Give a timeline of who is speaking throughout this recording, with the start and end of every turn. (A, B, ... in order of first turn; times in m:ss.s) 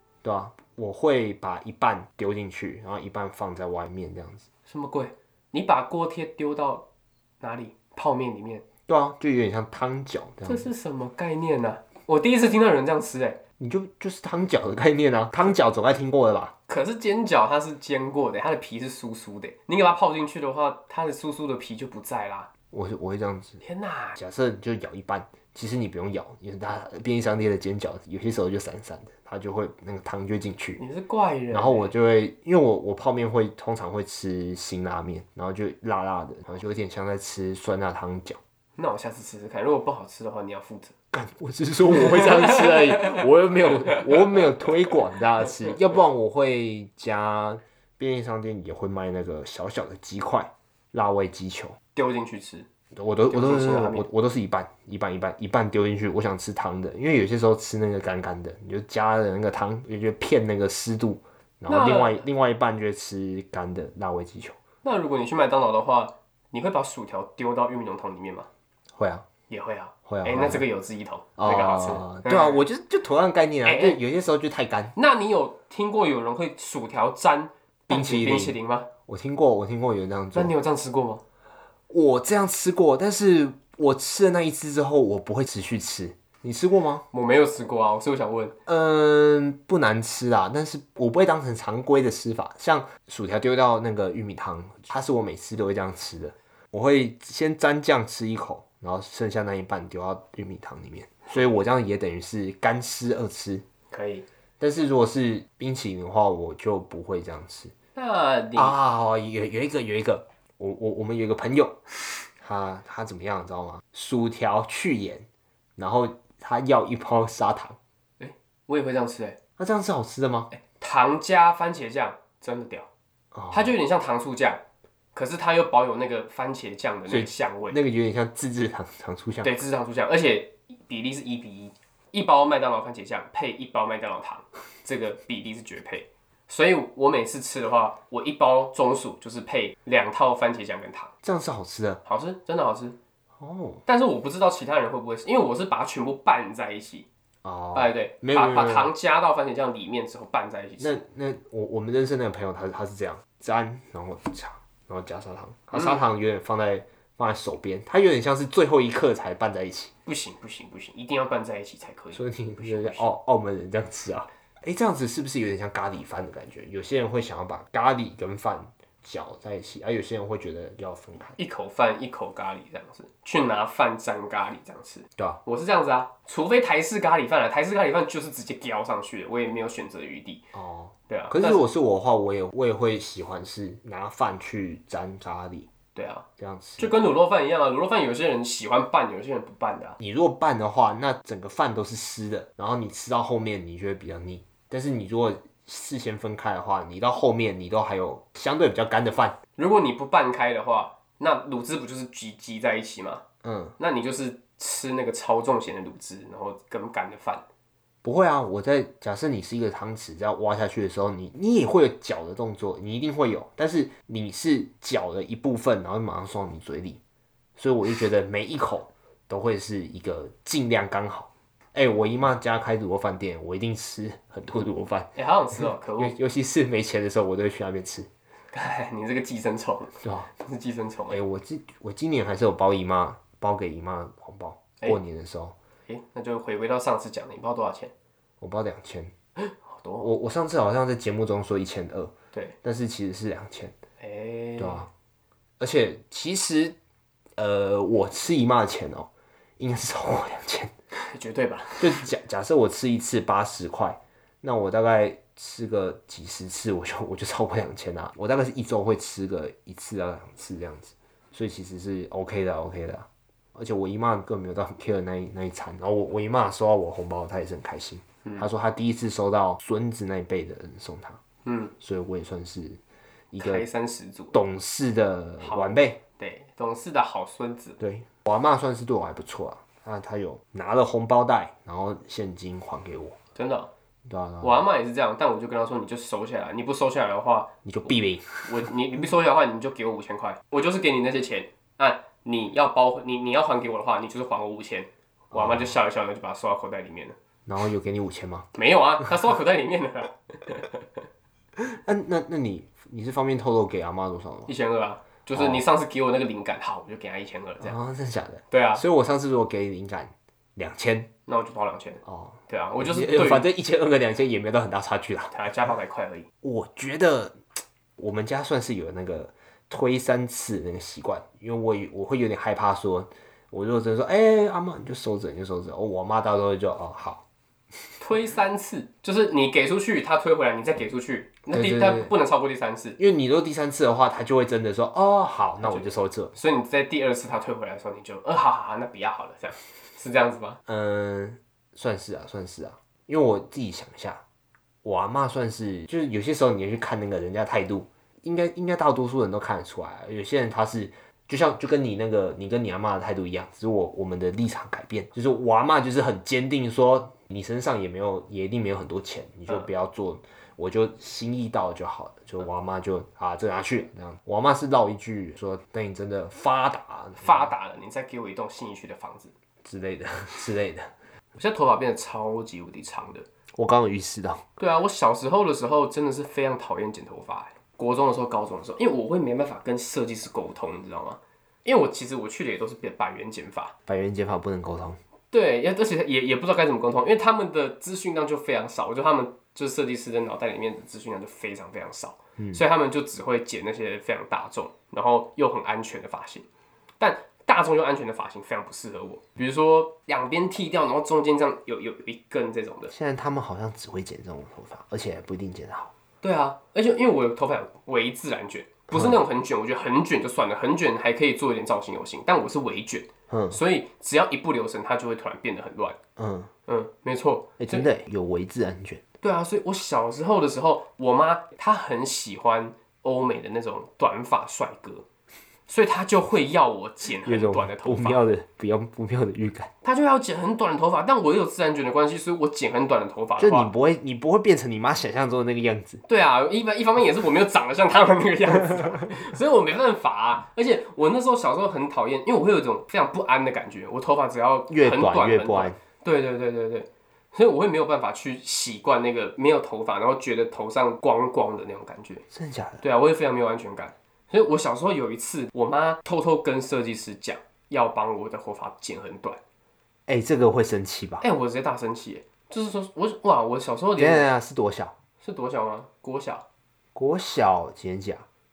0:00.2-0:04.4 A
0:04.7-0:06.8 B
0:07.4-0:08.6 B
0:08.9-0:10.7 A
0:10.4-0:13.4 B
0:13.6-0:16.5 A
0:16.7-0:22.5 B
0:22.7-0:23.6 A
0:23.6-0:24.2 B
0:24.2-0:30.8 A
0:30.8-0:31.9 B
0:31.5-0:38.4 A
0:38.8-0:40.9 B
0:41.1-0:51.8 A
0:51.9-0:52.7 B
0:52.9-1:04.6 A
0:53.3-0:54.0 B
1:01.7-1:02.2 B
1:04.8-1:08.5 B
1:09.0-1:09.2 A
1:09.5-1:12.6 B
1:10.1-1:10.6 A
1:11.4-1:14.9 A
1:13.6-1:14.0 B
1:14.9-1:18.9 B
1:17.9-1:18.6 A
1:19.1-1:20.5 A
1:20.3-1:21.2 B
1:21.9-1:27.0 A
1:27.1-1:28.5 B
1:28.6-1:43.6 A
1:43.9-1:44.2 B
1:44.6-1:47.7 A
1:47.9-1:48.7 B
1:48.6-1:51.8 A
1:52.4-1:57.8 A
1:58.2-1:59.4 B
1:59.6-2:00.5 A
2:00.5-2:02.9 B
2:03.3-2:03.7 A
2:03.5-2:04.6 B
2:05.1-2:07.8 B
2:07.1-2:09.5 A
2:09.4-2:21.1 B
2:21.2-2:22.0 A
2:22.0-2:23.0 B
2:23.4-2:23.8 A
2:23.8-2:27.0 B
2:27.4-2:28.9 A
2:27.7-2:31.0 B
2:30.8-2:39.9 A
2:35.7-2:36.0 B
2:40.0-2:43.1 B
2:42.1-2:51.4 A
2:51.4-3:00.4 B
3:00.5-3:05.7 A
3:01.1-3:01.6 B
3:05.9-3:06.2 B
3:06.4-3:06.9 A
3:06.8-3:10.0 B
3:10.0-3:19.4 A
3:19.6-3:23.2 B
3:23.4-3:23.7 A
3:23.8-3:27.4 B
3:28.0-3:37.0 A
3:37.6-3:45.1 A
3:45.2-3:46.1 B
3:46.0-3:48.1 A
3:48.5-3:51.2 B
3:50.0-3:50.3 A
3:51.1-3:55.5 A
3:55.9-3:57.9 B
3:58.4-3:59.1 A
3:59.5-4:00.1 B
4:00.0-4:02.1 A
4:02.6-4:03.8 A
4:04.0-4:04.9 B
4:04.6-4:04.9 A
4:05.6-4:06.8 A
4:07.4-4:10.7 A
4:10.9-4:12.0 B
4:11.8-4:31.2 A
4:31.4-4:31.7 B
4:31.8-4:32.8 A
4:33.3-4:33.6 A
4:33.4-4:34.4 B
4:34.3-4:36.0 A
4:35.4-4:37.8 B
4:37.8-4:43.2 A
4:43.4-4:43.7 B
4:44.1-4:44.6 A
4:44.4-4:47.5 B
4:47.6-4:48.5 A
4:48.4-4:57.2 B
4:55.3-4:55.7 A
4:57.4-4:58.5 A
4:58.5-5:00.8 B
5:01.6-5:04.5 A
5:04.5-5:07.7 B
5:05.3-5:05.6 A
5:07.6-5:11.1 A
5:08.5-5:08.8 B
5:11.3-5:13.5 B
5:12.0-5:15.3 A
5:15.3-5:16.3 B
5:16.4-5:17.4 A
5:18.0-5:27.2 A
5:28.0-5:33.0 B
5:31.5-5:32.1 A
5:33.0-5:36.3 A
5:35.6-5:40.6 B
5:40.7-5:44.2 A
5:44.8-6:07.5 A
6:07.2-6:09.3 B
6:09.6-6:10.9 A
6:11.4-6:13.2 B
6:13.6-6:14.4 A
6:14.6-6:23.7 B
6:23.9-6:25.0 A
6:25.3-6:36.4 B
6:37.0-6:42.9 B
6:42.9-6:45.9 A
6:46.2-6:56.0 B
6:48.9-6:49.2 A
6:53.3-6:53.6 A
6:56.2-6:56.5 A
6:56.7-6:57.8 B
6:57.6-6:59.0 A
6:59.2-7:05.0 B
7:05.7-7:08.2 B
7:07.2-7:09.7 A
7:09.8-7:13.7 B
7:13.4-7:16.0 A
7:16.1-7:32.2 B
7:24.7-7:25.8 A
7:32.3-7:32.8 A
7:32.8-7:39.4 B
7:40.1-7:41.2 A
7:41.2-7:44.3 B
7:44.0-7:44.9 A
7:45.2-7:46.4 B
7:46.9-7:48.2 A